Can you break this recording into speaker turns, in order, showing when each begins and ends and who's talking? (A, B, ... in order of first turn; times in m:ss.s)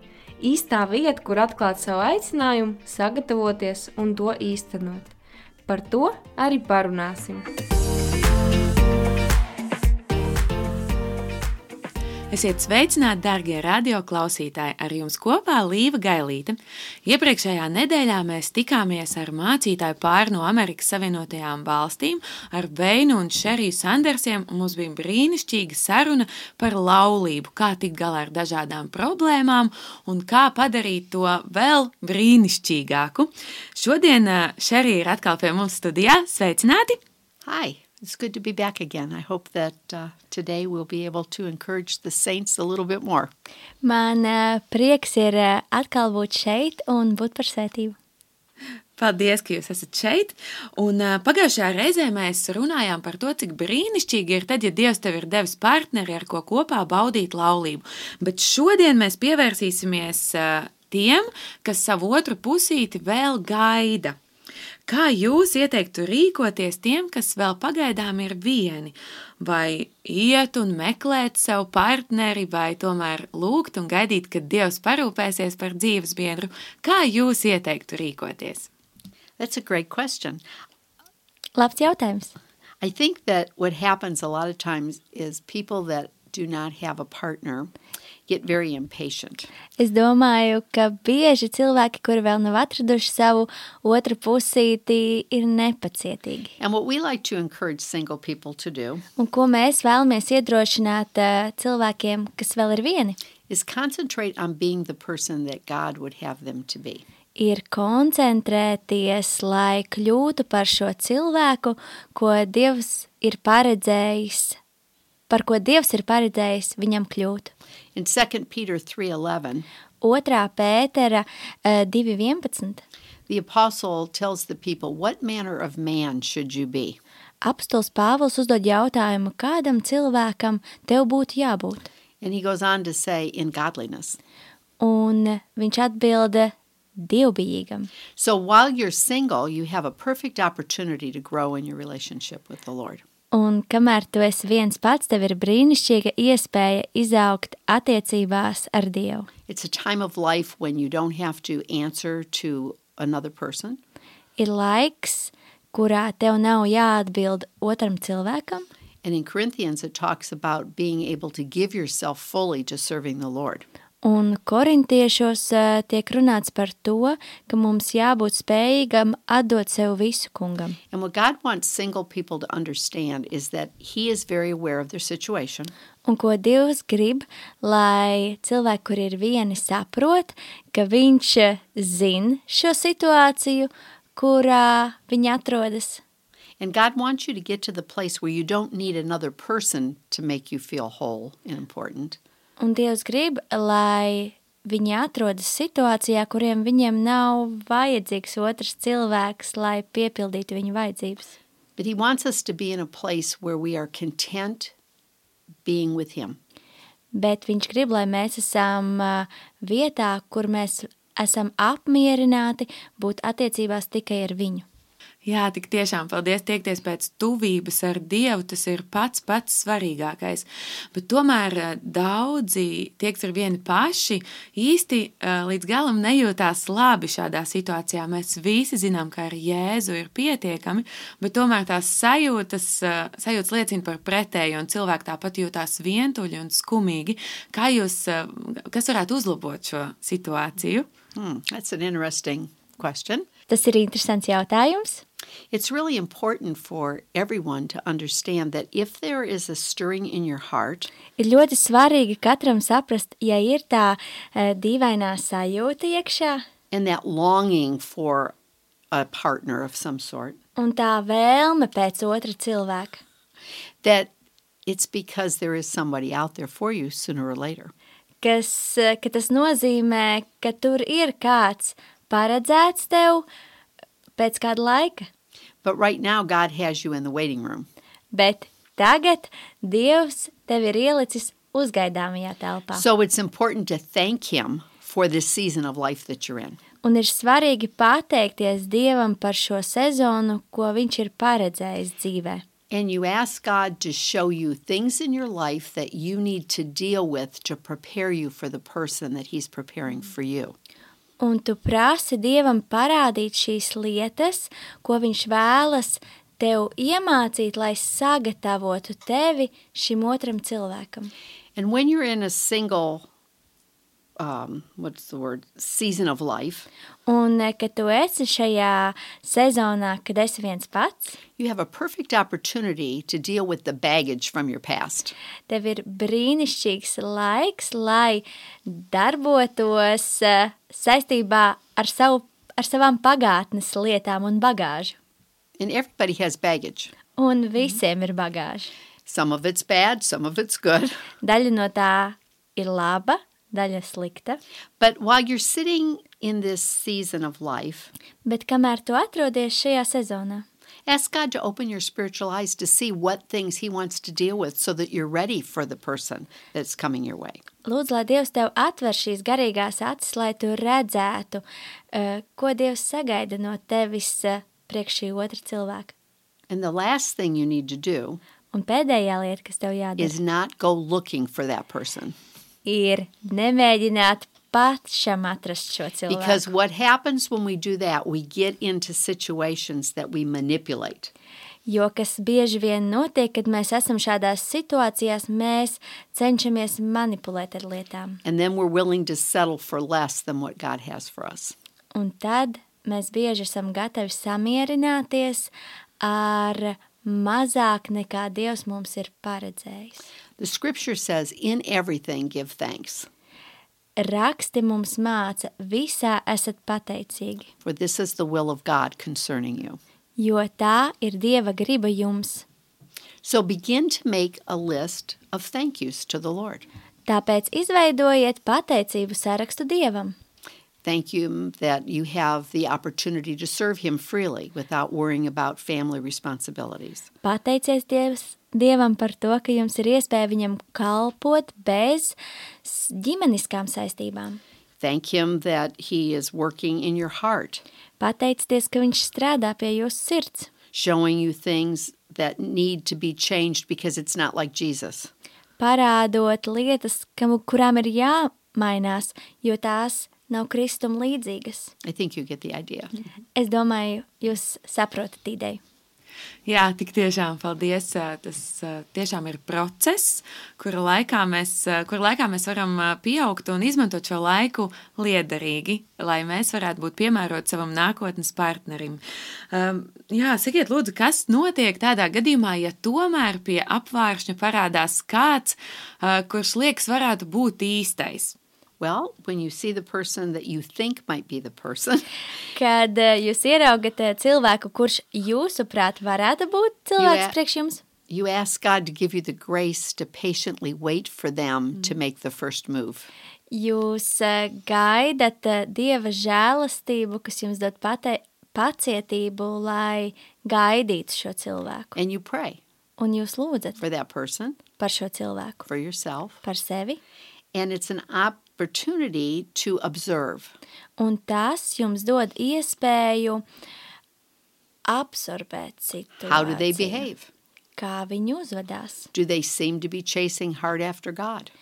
0:00.4-0:05.1 A
0:05.6-0:07.5 A
0:12.3-0:37.0 B
0:37.4-0:43.3 C
0:43.8-0:48.0 D
0:49.0-1:04.2 B
1:04.8-1:18.7 B
1:19.4-1:20.4 C
1:21.6-1:22.3 D
1:22.8-1:27.7 C
1:28.3-1:29.5 C
1:29.8-1:36.5 D
1:36.6-1:39.0 C
1:39.2-1:43.2 D
1:43.5-1:47.0 C
1:47.4-1:54.6 D
1:55.3-1:57.5 D
1:57.9-1:59.6 C
2:00.0-2:02.8 D
2:03.3-2:07.0 C
2:07.4-2:11.9 D
2:12.2-2:14.2 C
2:14.8-2:17.9 D
2:18.2-2:23.0 C
2:23.3-2:29.3 D
2:29.5-2:33.8 C
2:34.4-2:38.6 D
2:39.0-2:43.6 C
2:44.0-2:50.8 D
2:50.9-2:55.7 C
2:56.0-3:06.0 D
3:06.6-3:12.2 C
3:12.6-3:21.3 D
3:21.8-3:24.7 C
3:25.6-3:26.4 C
3:27.1-3:34.6 D
3:35.2-4:00.9 B
4:01.1-4:03.2 C
4:03.5-4:05.0 D
4:05.5-4:10.9 C
4:11.2-4:16.4 D
4:16.7-4:18.3 C
4:18.9-4:20.4 C
4:20.6-4:23.0 D
4:23.8-4:24.1 C
4:24.6-4:27.7 C
4:28.2-4:33.2 D
4:34.2-4:35.1 D
4:35.6-4:37.7 C
4:38.1-4:42.8 D
4:42.7-4:46.6 C
4:46.8-4:52.4 D
4:52.7-5:00.5 C
5:01.2-5:11.1 D
5:11.6-5:13.1 C
5:14.2-5:16.7 C
5:17.0-5:21.2 D
5:21.4-5:25.1 C
5:25.5-5:34.9 D
5:35.6-5:36.9 C
5:37.2-5:38.7 D
5:39.0-5:41.0 C
5:41.2-5:44.4 D
5:44.8-5:47.9 C
5:48.2-5:50.4 D
5:50.8-5:57.4 C
5:57.6-6:05.9 D
6:06.5-6:08.2 C
6:08.5-6:10.2 D
6:10.0-6:12.2 C
6:12.6-6:16.4 D
6:16.1-6:21.1 C
6:21.6-6:28.2 D
6:28.2-6:31.5 C
6:31.9-6:35.5 D
6:36.0-6:40.0 D
6:40.4-6:43.1 C
6:44.0-6:47.5 D
6:47.6-6:49.8 C
6:50.2-6:52.4 D
6:53.2-6:56.6 C
6:57.1-7:00.2 D
7:00.8-7:07.1 C
7:07.2-7:14.4 D
7:14.8-7:17.6 C
7:18.0-7:20.5 D
7:20.7-7:25.1 C
7:25.6-7:31.7 D
7:31.8-7:33.0 C
7:33.4-7:35.6 D
7:36.4-7:58.4 B
7:58.8-8:02.1 C
8:02.5-8:07.8 D
8:07.0-8:07.3 C
8:08.1-8:13.1 C
8:13.5-8:22.0 D
8:22.0-8:22.6 C
8:23.0-8:23.8 D
8:23.8-8:24.6 C
8:24.8-8:25.7 D
8:25.6-8:26.4 C
8:26.4-8:27.0 D
8:27.5-8:30.5 C
8:31.0-8:33.4 D
8:34.9-8:37.1 D
8:36.2-8:37.3 C
8:37.8-8:39.1 D
8:39.1-8:41.5 C